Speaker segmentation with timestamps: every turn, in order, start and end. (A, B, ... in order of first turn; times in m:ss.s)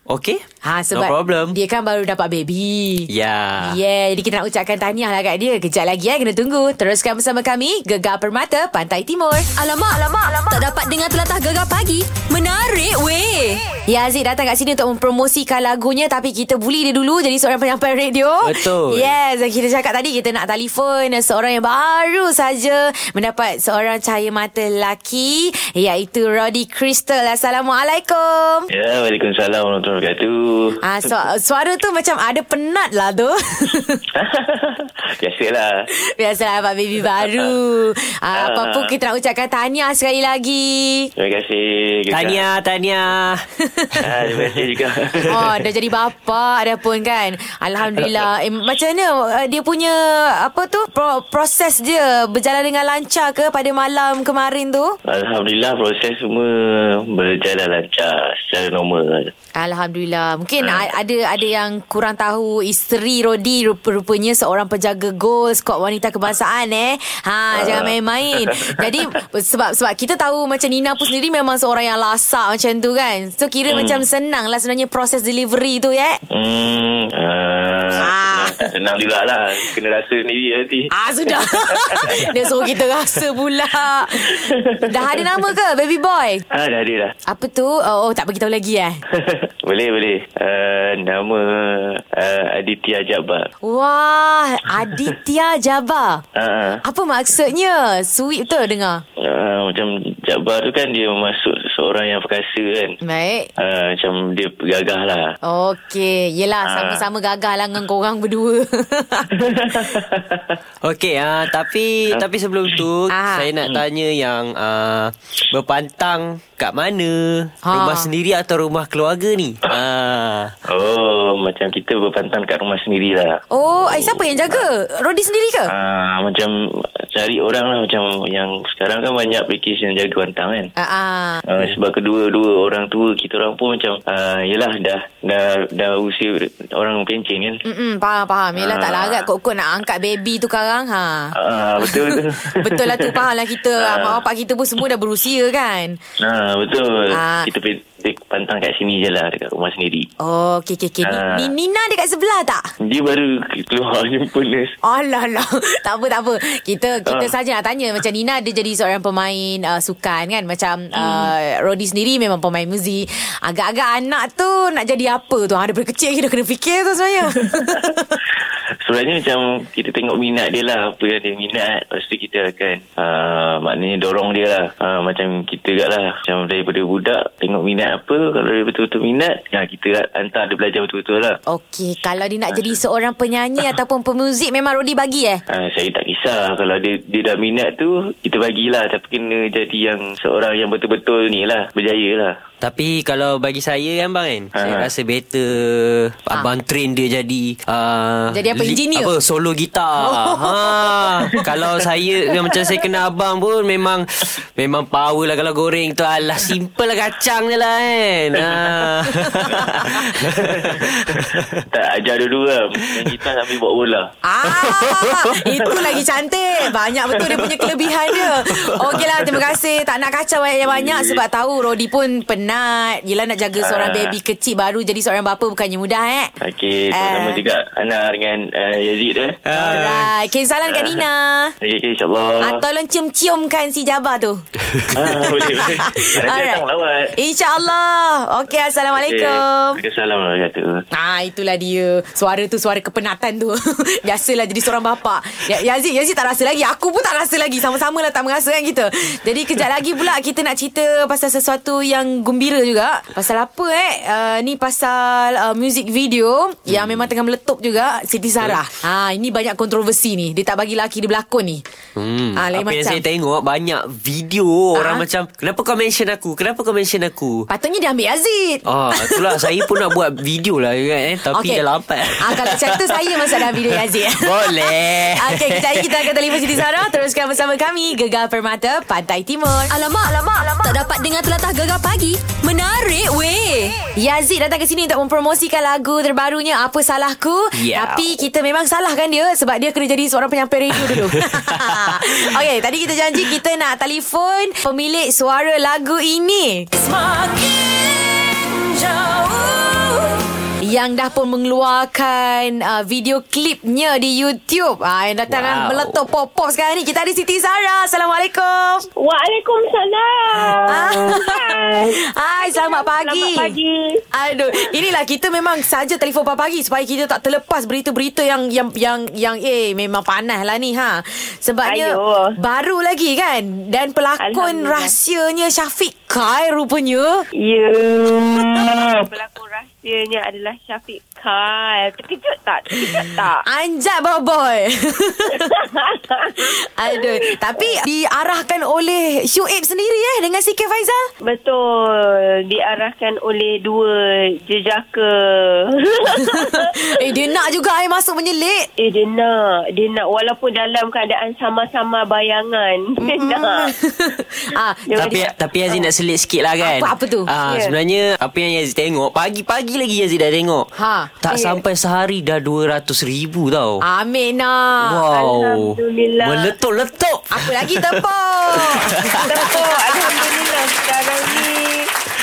0:00.1-0:01.6 A
0:00.6-0:03.1 B
0:03.1-0:03.8 A
0:03.6-0:09.5 B
0:09.6-0:13.6 C
0:13.8-0:28.7 B
0:18.4-0:19.1 A
0:28.7-0:30.8 D
0:30.8-0:34.0 B
0:34.1-0:35.8 D
0:36.0-0:41.1 B
0:38.3-0:38.9 D
0:41.2-0:42.4 D
0:42.1-0:44.6 A
0:44.0-0:45.3 D
0:45.2-0:55.0 B
0:55.0-0:59.3 D
0:59.5-1:16.2 B
1:07.5-1:08.8 D
1:13.7-1:14.0 D
1:16.3-1:22.7 D
1:18.0-1:18.7 B
1:20.9-1:26.4 B
1:24.2-1:25.4 D
1:26.5-1:27.1 D
1:27.3-1:29.0 B
1:29.1-1:33.5 D
1:33.6-1:36.2 B
1:36.3-1:36.8 D
1:36.8-1:39.0 B
1:39.2-1:43.0 D
1:43.0-1:43.5 B
1:43.6-1:45.3 D
1:45.4-1:49.3 B
1:46.6-1:47.0 D
1:49.3-1:50.6 D
1:50.8-2:00.5 A
1:53.1-1:53.5 B
1:57.7-1:58.1 B
2:00.7-2:04.7 D
2:03.5-2:05.7 B
2:05.7-2:10.7 D
2:10.8-2:11.4 B
2:11.4-2:17.6 D
2:17.6-2:26.0 B
2:18.6-2:19.3 D
2:21.3-2:23.2 D
2:23.8-2:24.2 D
2:26.2-2:30.1 D
2:27.1-2:27.5 B
2:30.2-2:32.6 B
2:31.0-2:31.5 D
2:32.8-2:34.8 D
2:34.8-2:48.1 B
2:37.1-2:37.3 D
2:41.0-2:41.3 D
2:47.4-2:47.7 D
2:48.8-3:01.4 D
3:01.5-3:05.4 B
3:05.5-3:12.4 D
3:12.6-3:31.6 A
3:14.6-3:14.9 D
3:18.3-3:19.1 B
3:20.0-3:21.4 B
3:30.4-3:34.1 D
3:34.2-3:46.3 B
3:34.8-3:36.0 D
3:37.2-3:37.7 D
3:39.0-3:39.4 D
3:40.6-3:41.2 D
3:43.6-3:44.2 D
3:46.4-3:49.8 D
3:46.9-3:47.4 B
3:49.4-3:50.1 A
3:49.5-3:51.5 B
3:50.7-3:51.0 D
3:51.6-3:52.6 D
3:52.4-3:54.4 B
3:54.9-3:57.1 D
3:55.0-3:56.6 B
3:57.2-3:59.8 B
3:59.0-4:00.8 D
4:00.9-4:21.6 B
4:16.7-4:17.1 A
4:22.0-4:27.5 A
4:22.4-4:23.0 B
4:24.8-4:25.0 B
4:27.5-4:29.8 B
4:28.6-4:36.9 A
4:31.3-4:31.6 B
4:32.2-4:39.7 B
4:39.7-4:43.8 C
4:44.0-4:56.8 B
4:47.5-4:48.1 A
4:50.8-4:52.4 A
4:57.5-4:59.4 A
5:00.6-5:08.9 B
5:05.3-5:06.0 A
5:09.0-5:14.6 E
5:10.7-5:13.5 B
5:14.1-5:27.3 B
5:21.6-5:22.3 E
5:24.2-5:24.9 E
5:27.4-5:33.4 E
5:32.8-5:35.6 B
5:35.4-5:37.0 E
5:36.4-5:41.1 B
5:41.2-5:46.7 E
5:46.1-5:48.7 B
5:48.8-5:53.7 E
5:53.0-5:55.1 B
5:54.9-5:55.3 E
5:55.0-6:03.8 A
5:56.6-5:57.3 B
5:57.5-5:57.7 E
6:00.8-6:01.1 B
6:03.8-6:05.0 B
6:04.8-6:09.5 A
6:05.1-6:06.5 E
6:07.3-6:10.3 B
6:09.2-6:11.9 E